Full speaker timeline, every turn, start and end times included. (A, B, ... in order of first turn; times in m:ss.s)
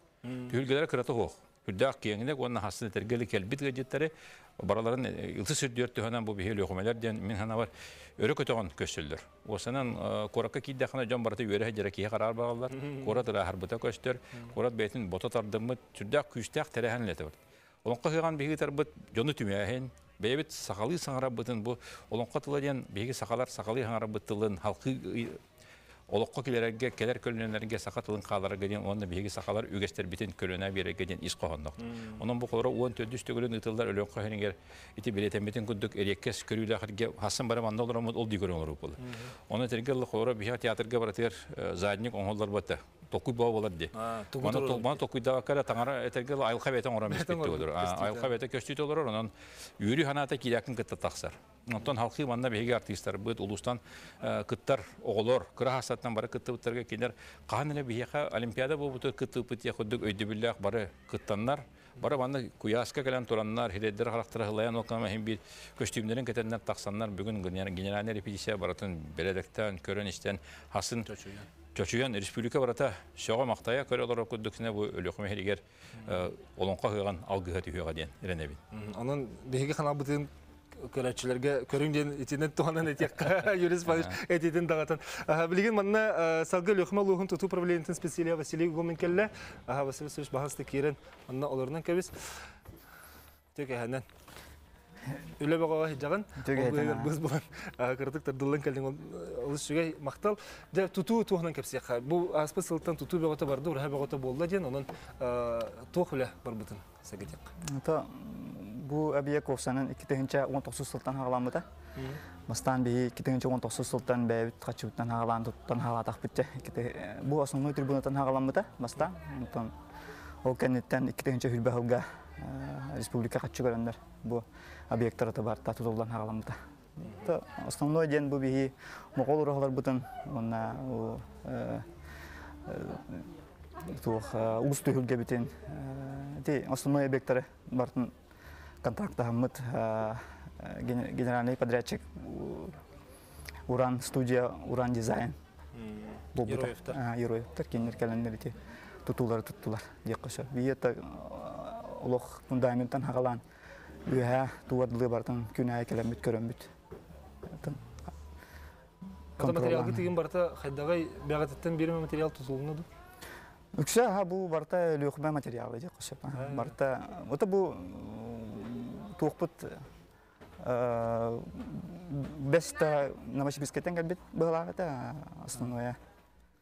0:00.2-0:00.6 A
0:00.5-0:25.4 B
0:26.1-1:11.1 B
0:31.9-0:32.2 A
0:39.0-0:39.3 A
0:44.0-0:45.0 A
0:47.1-0:48.3 A
1:11.0-1:11.5 A
1:11.8-1:18.6 B
1:18.7-1:32.5 A
1:33.5-1:34.0 A
1:35.4-1:47.5 A
1:36.4-1:37.1 C
1:47.7-1:51.7 C
1:52.0-1:52.2 A
1:52.5-1:59.8 C
2:00.4-2:11.9 C
2:12.6-2:13.3 C
2:13.9-2:18.1 C
2:18.8-2:22.8 C
2:23.7-2:25.4 C
2:25.8-2:27.0 A
2:26.4-2:28.5 C
2:29.0-2:33.4 C
2:34.0-2:36.7 C
2:37.5-2:37.8 C
2:39.4-2:42.9 A
2:39.4-2:40.1 C
2:43.8-2:49.8 C
2:46.4-2:46.7 A
2:50.6-2:56.0 C